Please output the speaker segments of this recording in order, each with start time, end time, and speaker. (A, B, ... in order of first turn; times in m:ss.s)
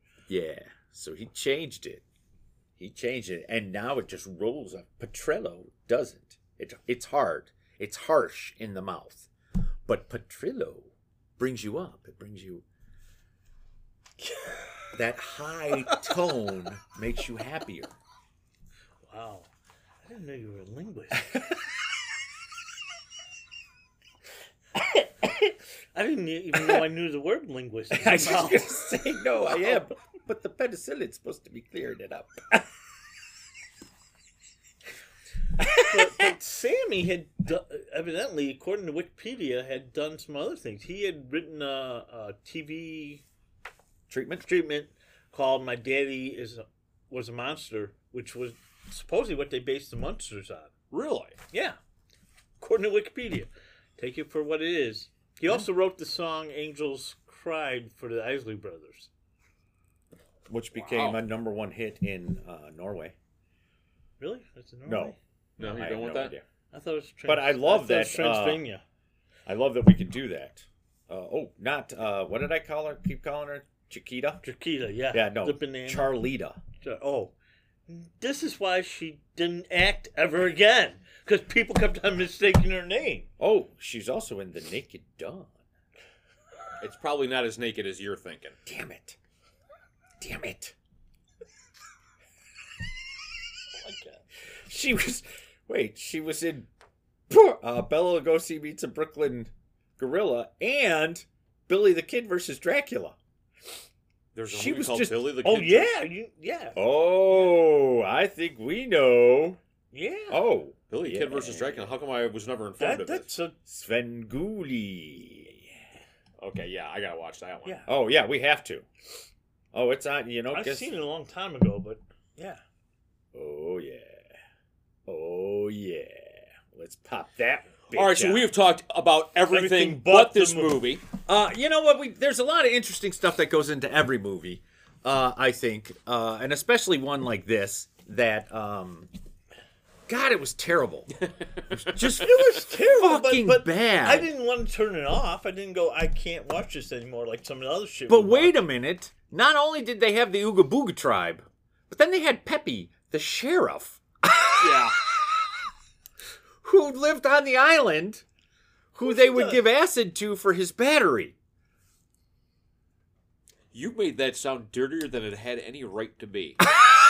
0:00.3-0:02.0 A
0:02.8-0:09.3 A
0:09.9-0:12.6 A
0:14.9-0:17.9 A
0:19.1-0:19.5 B
0:20.0-0:21.4 B
0:26.0-0:28.8 B
0:27.9-0:32.6 A
0:35.6-0:36.1 A
0:35.8-0:43.2 B
0:44.1-0:44.4 A
0:44.4-0:50.7 B
0:50.9-0:51.4 C
0:51.5-0:51.8 B
0:52.6-0:59.1 B
1:00.5-1:03.2 A
1:00.8-1:01.2 C
1:04.2-1:05.2 B
1:04.9-1:06.4 A
1:05.6-1:06.3 C
1:06.7-1:08.8 B
1:07.3-1:08.6 A
1:09.5-1:14.4 A
1:14.4-1:16.1 B
1:15.1-1:16.6 A
1:16.8-1:17.3 B
1:17.9-1:23.3 B
1:23.4-1:25.5 A
1:26.8-1:28.6 C
1:28.7-1:29.2 A
1:30.2-1:30.8 A
1:33.8-1:34.2 B
1:34.7-1:36.7 A
1:37.3-1:43.2 A
1:44.3-1:45.9 C
1:44.5-1:45.3 A
1:45.4-1:46.8 B
1:46.8-1:49.6 A
1:49.9-1:50.4 B
1:50.3-1:51.9 A
1:50.9-1:53.3 C
1:52.8-1:53.6 B
1:53.7-1:55.7 A
1:56.4-1:57.8 C
1:57.9-1:58.9 A
1:59.7-2:00.9 A
2:00.5-2:02.6 B
2:03.3-2:04.3 A
2:05.1-2:08.5 A
2:07.9-2:11.0 C
2:09.5-2:10.8 B
2:11.3-2:19.1 A
2:20.1-2:21.1 A
2:21.7-2:22.0 C
2:21.7-2:24.3 A
2:22.0-2:28.6 B
2:28.1-2:35.2 A
2:34.6-2:35.0 C
2:36.6-2:38.2 A
2:38.9-2:41.4 A
2:39.1-2:39.6 B
2:43.7-2:46.6 C